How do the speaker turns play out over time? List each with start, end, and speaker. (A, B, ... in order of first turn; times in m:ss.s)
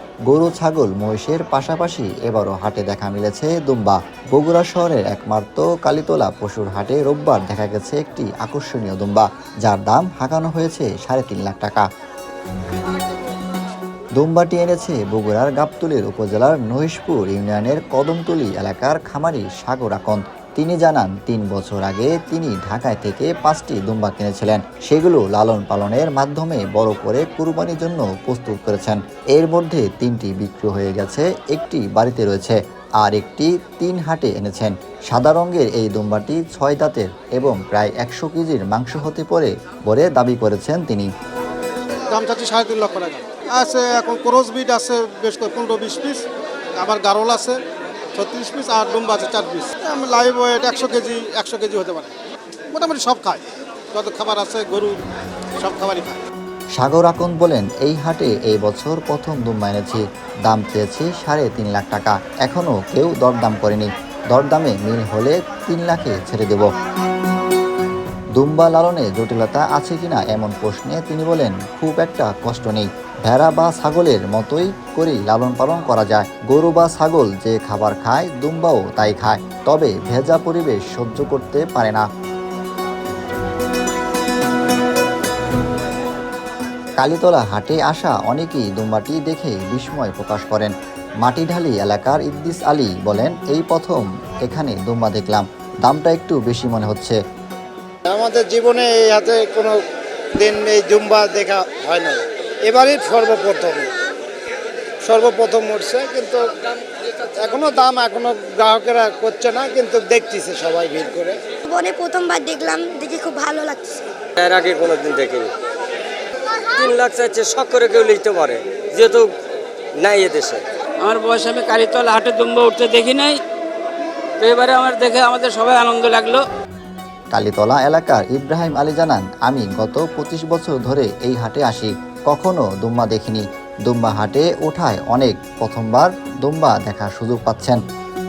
0:00.3-0:11.9 A
0:14.2-0:41.1 A
0:42.1-0:47.6 B
0:48.2-0:52.1 B
0:52.7-0:55.0 B
0:55.6-0:56.2 B
0:56.8-1:06.7 A
1:08.4-1:22.0 A
1:27.0-1:37.2 A
1:38.1-1:39.8 C
1:40.4-1:44.0 C
1:45.0-1:51.4 C
1:51.7-1:54.1 D
1:54.4-1:55.5 E
1:56.7-1:59.3 E
2:00.0-2:00.6 E
2:01.0-2:03.4 F
2:04.4-2:06.4 F
2:07.3-2:17.8 A